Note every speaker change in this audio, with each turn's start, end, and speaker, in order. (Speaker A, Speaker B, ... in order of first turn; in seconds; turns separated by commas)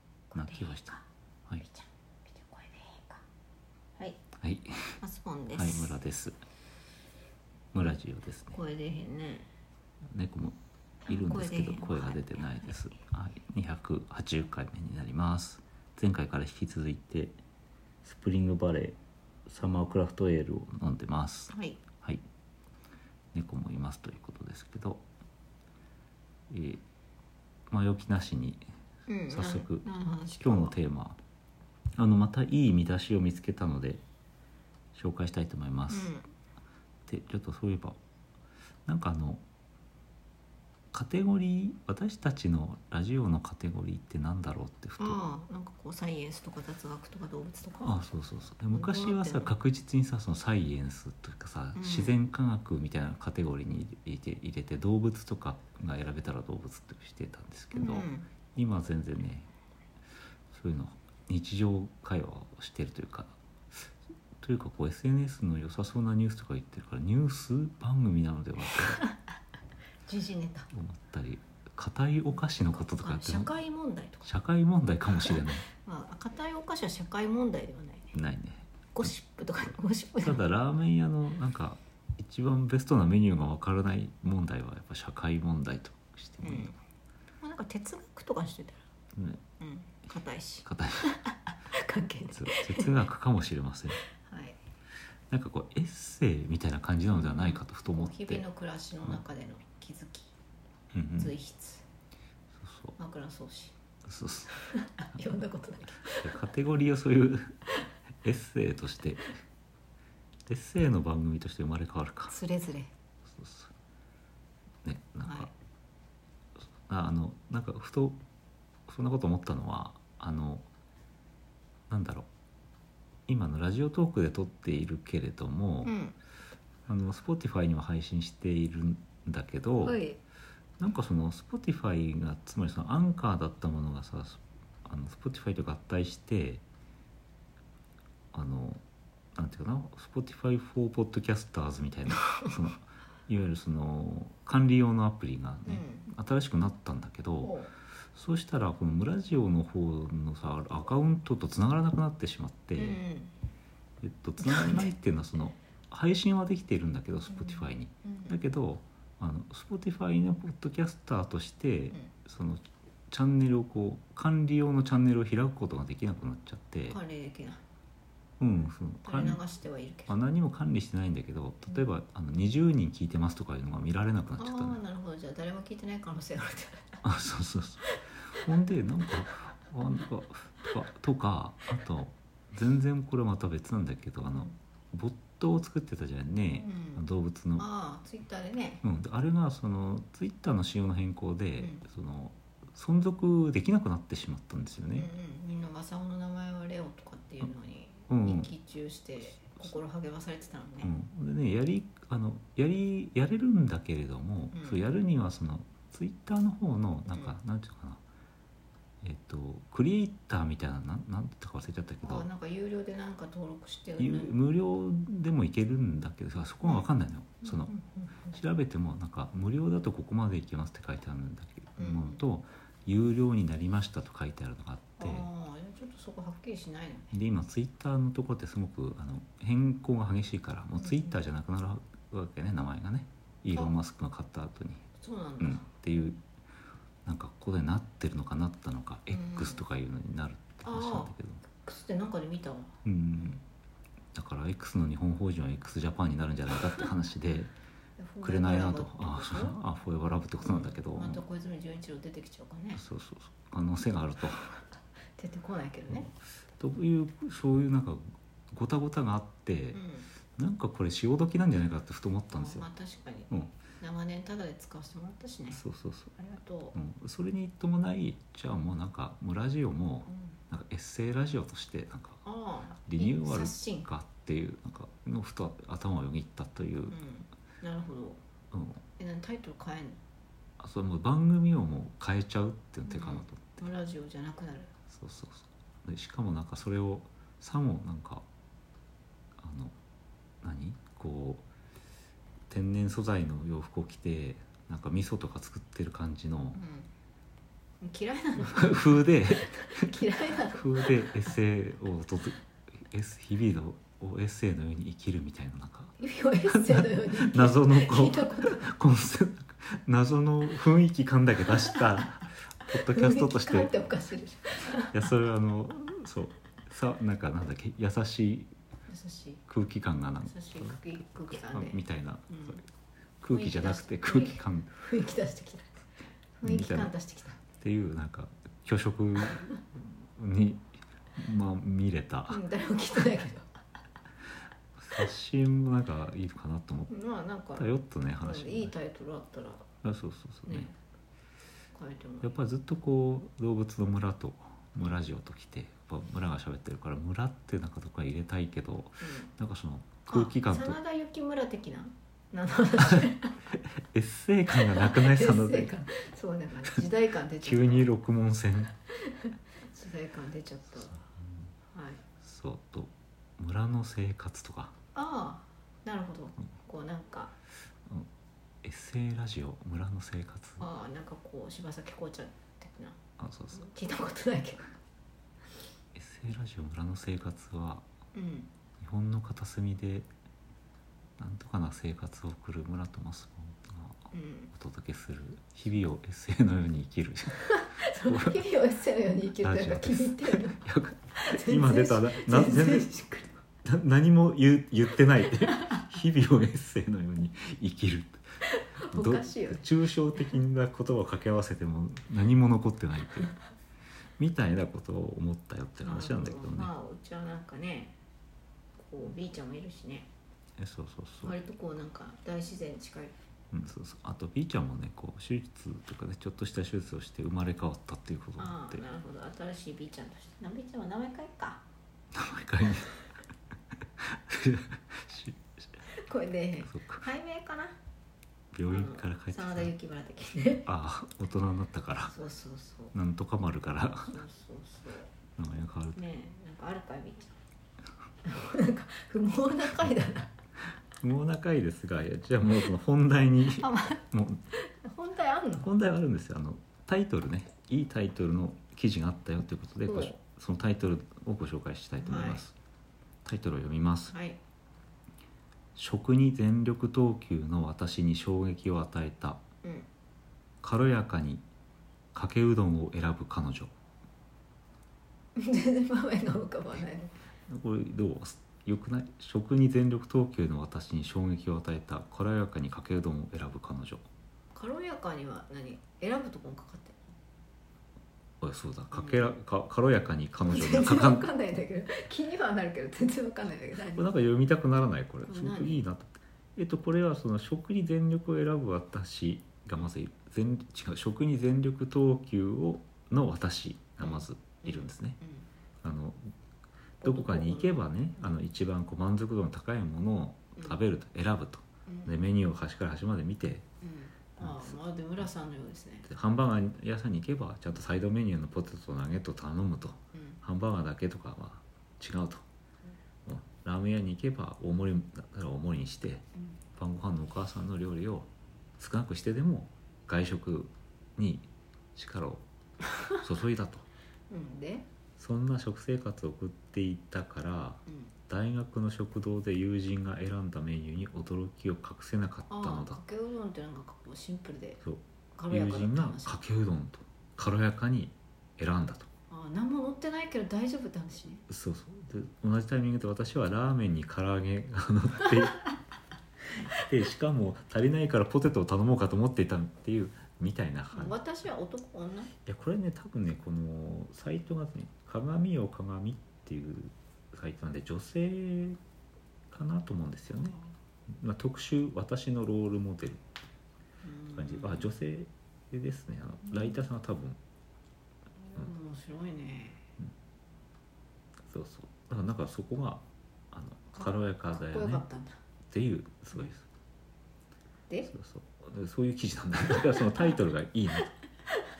Speaker A: 0.3-1.0, Speaker B: 0.3-1.6, Speaker A: 1.6-3.2, Speaker A: 4.0-4.2, Speaker B: 4.4-5.0, Speaker A: 5.0-6.0, Speaker B: 5.5-6.4, Speaker B: 7.7-8.6, Speaker A: 8.5-9.5, Speaker B: 10.1-10.6, Speaker A: 11.0-12.8, Speaker B: 11.1-17.3, Speaker B: 18.0-22.2, Speaker A: 21.5-21.8, Speaker B: 23.3-25.0, Speaker B: 26.5-26.8, Speaker B: 27.7-28.6, Speaker A: 29.1-30.7, Speaker B: 29.3-29.9, Speaker B: 30.4-31.2, Speaker B: 32.0-34.0, Speaker B: 34.9-36.1, Speaker A: 35.9-36.3, Speaker B: 37.0-38.0, Speaker B: 38.9-39.4, Speaker B: 40.9-45.2, Speaker A: 45.0-48.1, Speaker B: 47.8-59.5, Speaker A: 48.7-49.5, Speaker A: 51.7-52.1, Speaker A: 57.7-58.3, Speaker B: 60.5-69.0, Speaker A: 68.7-69.1, Speaker A: 70.0-70.7, Speaker B: 70.7-73.5, Speaker A: 73.0-74.3, Speaker B: 74.2-75.6, Speaker A: 75.1-78.1, Speaker B: 78.1-78.7, Speaker A: 78.9-80.4, Speaker B: 80.2-86.7, Speaker A: 86.4-86.8, Speaker A: 87.4-88.8, Speaker B: 89.1-89.4, Speaker A: 89.6-93.0, Speaker B: 90.6-91.1, Speaker B: 92.3-94.0, Speaker A: 94.0-94.6, Speaker B: 95.3-98.4, Speaker A: 97.1-100.3, Speaker B: 100.9-101.3, Speaker A: 101.1-101.8, Speaker B: 102.6-102.9, Speaker A: 103.0-103.7, Speaker B: 104.0-104.5, Speaker A: 104.5-106.3, Speaker B: 106.2-107.5, Speaker B: 108.2-109.2, Speaker B: 110.5-112.3, Speaker A: 112.3-112.9, Speaker B: 113.2-113.7, Speaker B: 114.8-115.5, Speaker A: 115.2-115.5, Speaker B: 116.9-118.2, Speaker B: 118.9-120.7, Speaker B: 121.9-122.3, Speaker B: 123.3-125.9, Speaker A: 125.8-126.2, Speaker B: 126.9-130.0, Speaker A: 129.8-130.2, Speaker B: 130.8-136.6, Speaker B: 138.3-138.8, Speaker B: 139.3-147.5, Speaker A: 145.6-146.1, Speaker A: 147.4-147.7, Speaker B: 148.1-153.0, Speaker A: 152.8-153.3, Speaker B: 154.0-167.0, Speaker A: 154.4-154.9, Speaker A: 157.3-158.3, Speaker A: 166.9-167.6, Speaker B: 168.4-169.4, Speaker A: 169.0-170.2, Speaker B: 170.1-174.8, Speaker A: 174.4-177.0, Speaker B: 177.0-187.7, Speaker A: 186.5-187.0, Speaker A: 187.6-188.8, Speaker B: 188.8-195.1, Speaker A: 194.9-200.9, Speaker B: 198.1-198.5, Speaker B: 200.8-208.0, Speaker A: 204.5-204.8, Speaker B: 209.0-212.3, Speaker A: 212.0-214.4, Speaker B: 214.0-217.7, Speaker A: 216.6-216.9, Speaker A: 217.4-218.4, Speaker B: 218.3-225.3, Speaker A: 221.8-222.2, Speaker A: 225.0-227.1, Speaker B: 227.1-234.9, Speaker A: 235.0-235.6, Speaker B: 235.4-236.2, Speaker B: 237.0-241.4, Speaker A: 239.1-239.6, Speaker A: 240.6-243.4, Speaker B: 242.8-243.4, Speaker B: 244.1-247.5, Speaker A: 248.0-249.6, Speaker B: 248.2-251.2, Speaker A: 250.4-252.8, Speaker B: 252.8-254.5, Speaker A: 255.2-256.1, Speaker B: 256.6-259.8, Speaker A: 259.7-260.1, Speaker B: 260.3-262.6, Speaker A: 262.3-265.6, Speaker B: 265.5-266.1, Speaker A: 266.1-266.8, Speaker B: 266.7-272.2, Speaker A: 270.1-270.3, Speaker A: 272.2-273.9, Speaker B: 272.9-277.0, Speaker A: 276.9-278.2, Speaker B: 278.5-278.8, Speaker A: 279.0-280.0, Speaker B: 280.6-283.7, Speaker A: 282.9-284.7, Speaker B: 284.9-288.2, Speaker B: 289.4-289.7, Speaker B: 290.4-291.4, Speaker B: 292.5-296.6, Speaker A: 296.5-296.9, Speaker A: 297.8-301.2, Speaker B: 298.4-305.9, Speaker A: 306.0-308.7, Speaker B: 306.5-313.8, Speaker A: 311.5-311.8, Speaker A: 312.8-315.1, Speaker B: 314.9-318.5, Speaker A: 318.9-319.4, Speaker B: 319.5-320.8, Speaker A: 320.2-322.6, Speaker B: 321.3-322.6, Speaker B: 323.2-324.7, Speaker A: 323.3-325.8, Speaker A: 326.4-327.4, Speaker B: 326.4-326.9, Speaker B: 327.6-332.4, Speaker A: 332.3-333.5, Speaker B: 334.8-336.9, Speaker A: 336.9-339.7, Speaker B: 337.6-338.7, Speaker B: 339.8-340.7, Speaker A: 340.5-340.7, Speaker A: 341.7-342.3, Speaker B: 342.2-350.8, Speaker A: 349.0-349.3, Speaker A: 350.1-353.4, Speaker B: 353.9-355.7, Speaker A: 354.5-357.9, Speaker B: 357.4-358.7, Speaker A: 358.9-361.0, Speaker B: 360.8-361.4, Speaker A: 361.7-362.0, Speaker B: 362.2-364.7, Speaker A: 364.9-367.3, Speaker B: 368.6-370.7, Speaker A: 370.6-373.0, Speaker B: 373.2-373.7, Speaker A: 373.5-374.7, Speaker B: 375.9-377.8, Speaker A: 378.1-378.5, Speaker B: 378.8-380.1, Speaker B: 381.2-387.4, Speaker A: 384.1-384.5, Speaker A: 387.4-390.6, Speaker B: 388.1-388.4, Speaker B: 389.4-392.9, Speaker A: 391.1-393.3, Speaker B: 393.6-398.2, Speaker A: 398.4-399.6, Speaker B: 398.9-403.3, Speaker B: 404.2-406.7, Speaker A: 405.8-407.9, Speaker A: 408.8-410.1, Speaker B: 410.6-411.4, Speaker A: 411.2-413.1, Speaker B: 413.5-418.8, Speaker A: 418.4-421.6, Speaker B: 422.1-422.9, Speaker B: 424.0-425.6, Speaker A: 425.9-427.8, Speaker B: 426.6-427.0, Speaker B: 428.5-429.7, Speaker A: 428.7-430.7, Speaker B: 430.6-432.1, Speaker A: 432.1-432.9, Speaker B: 432.9-434.2, Speaker A: 433.9-435.1, Speaker B: 435.4-436.0, Speaker A: 435.9-437.4, Speaker A: 438.2-440.3, Speaker B: 441.0-444.4, Speaker A: 443.5-445.7, Speaker B: 445.6-452.5, Speaker A: 449.9-450.2, Speaker A: 452.0-452.4, Speaker B: 453.2-454.1, Speaker A: 454.1-454.4, Speaker B: 455.8-459.4, Speaker A: 459.6-459.9, Speaker B: 460.6-461.4, Speaker B: 462.1-463.7, Speaker A: 465.4-467.1, Speaker B: 467.5-474.0, Speaker A: 474.5-477.1, Speaker B: 478.4-481.2, Speaker A: 478.9-479.3, Speaker A: 480.4-484.1, Speaker B: 483.9-495.2, Speaker A: 485.2-485.8, Speaker A: 494.0-495.5, Speaker B: 495.8-496.3, Speaker A: 497.0-497.8, Speaker B: 497.0-503.6, Speaker A: 501.9-502.2, Speaker A: 503.8-506.1, Speaker B: 504.4-504.8, Speaker B: 506.0-512.4, Speaker A: 510.1-510.4, Speaker B: 513.2-522.5, Speaker B: 523.2-523.9, Speaker A: 524.3-524.9, Speaker B: 525.2-533.0, Speaker A: 532.5-534.8, Speaker B: 534.8-539.1, Speaker A: 535.3-536.4, Speaker A: 539.3-541.4, Speaker B: 541.5-545.7, Speaker B: 546.7-551.2, Speaker A: 550.9-552.3, Speaker B: 552.5-558.8, Speaker B: 559.5-560.6, Speaker B: 561.1-563.2, Speaker A: 564.0-564.9, Speaker B: 564.3-567.4, Speaker A: 568.5-569.9, Speaker B: 571.5-575.0, Speaker A: 573.9-575.4, Speaker B: 575.7-576.6, Speaker B: 578.1-581.1